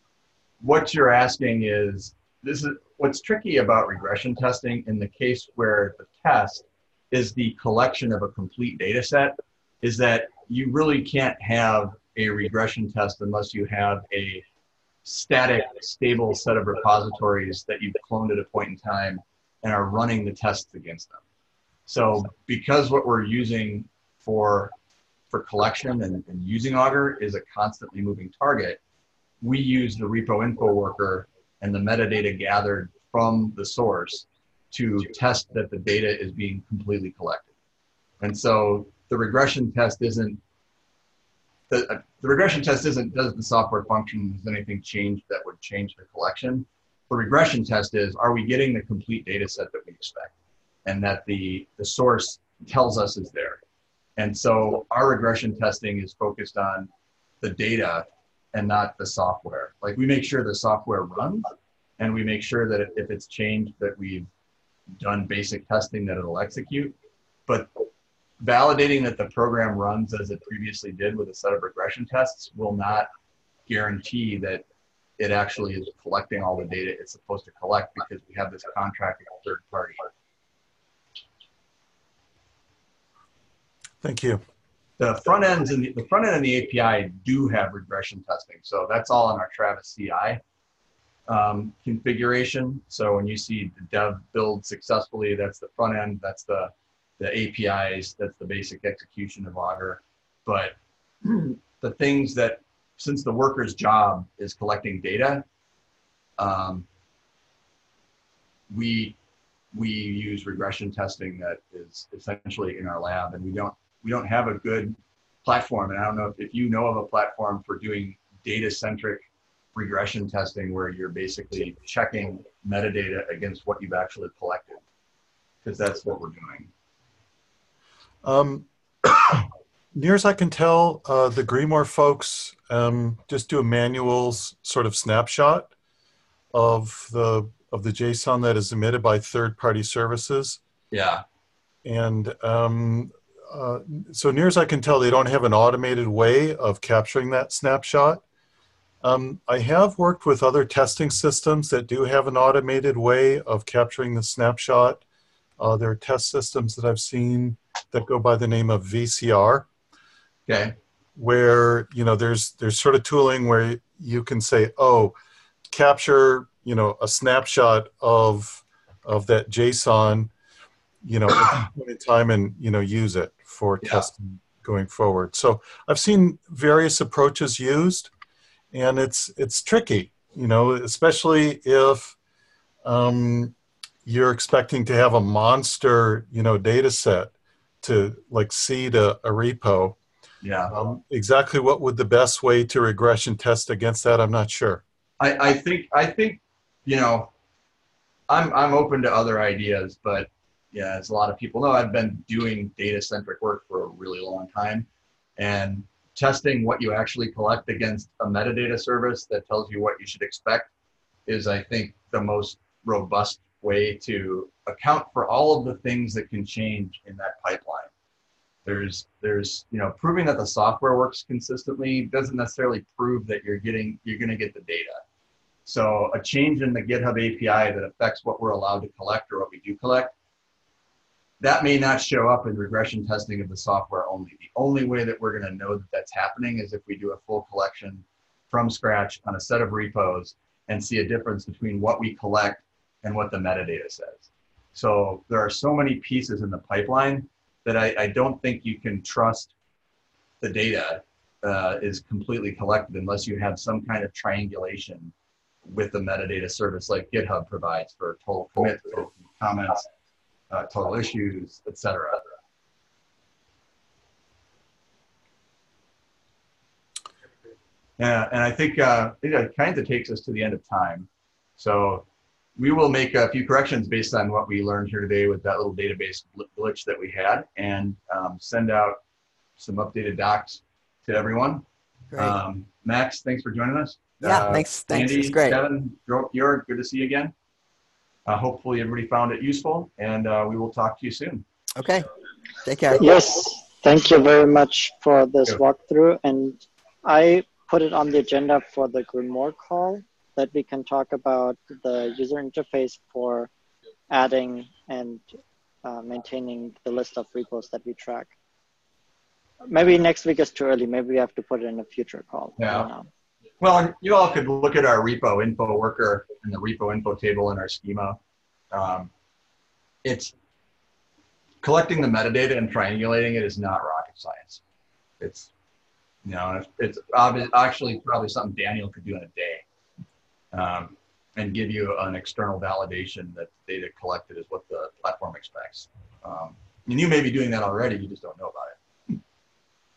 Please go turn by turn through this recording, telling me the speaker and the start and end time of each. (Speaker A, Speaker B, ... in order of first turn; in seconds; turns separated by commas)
Speaker A: 0.6-14.4, Speaker A: 15.0-21.2, Speaker A: 21.9-24.7, Speaker A: 25.3-28.8, Speaker A: 29.4-37.5, Speaker A: 38.2-40.4, Speaker A: 41.7-50.3, Speaker A: 50.9-53.6, Speaker A: 54.2-56.9, Speaker A: 57.4-64.3, Speaker A: 65.0-66.9, Speaker A: 67.5-67.8, Speaker A: 68.4-73.1, Speaker A: 73.7-74.6, Speaker A: 75.2-80.1, Speaker B: 84.0-84.4, Speaker A: 85.0-90.4, Speaker A: 91.3-105.4, Speaker A: 106.4-106.8, Speaker A: 108.7-109.2, Speaker A: 109.7-124.8, Speaker A: 125.6-126.7, Speaker B: 128.2-135.7, Speaker B: 136.5-140.6, Speaker A: 140.9-141.2, Speaker B: 141.8-148.2, Speaker B: 149.0-155.0, Speaker B: 155.6-159.7, Speaker A: 160.5-160.7, Speaker B: 161.2-165.1, Speaker B: 165.7-170.3, Speaker B: 171.0-178.1, Speaker A: 173.8-174.1, Speaker B: 178.7-182.2, Speaker B: 182.8-183.5, Speaker B: 184.0-190.0, Speaker A: 190.4-190.7, Speaker B: 190.7-194.8, Speaker A: 195.2-197.3, Speaker A: 198.3-204.9, Speaker A: 205.4-210.7, Speaker A: 211.3-217.9, Speaker A: 218.6-225.0, Speaker A: 225.7-230.1, Speaker A: 231.4-249.5, Speaker A: 250.4-255.1, Speaker A: 255.6-259.9, Speaker A: 260.5-262.2, Speaker A: 268.0-272.0, Speaker A: 272.6-279.0, Speaker A: 279.6-281.6, Speaker C: 282.1-282.4, Speaker A: 282.1-287.3, Speaker C: 284.2-285.6, Speaker A: 288.2-291.4, Speaker C: 291.8-292.1, Speaker C: 292.6-293.1, Speaker D: 293.0-303.5, Speaker D: 304.1-305.2, Speaker D: 305.8-308.3, Speaker D: 309.6-313.1, Speaker A: 312.6-312.9, Speaker A: 313.6-318.2, Speaker A: 318.7-319.1, Speaker A: 320.0-320.3, Speaker A: 321.6-324.6, Speaker A: 325.2-325.5, Speaker A: 326.2-329.6, Speaker A: 330.5-339.2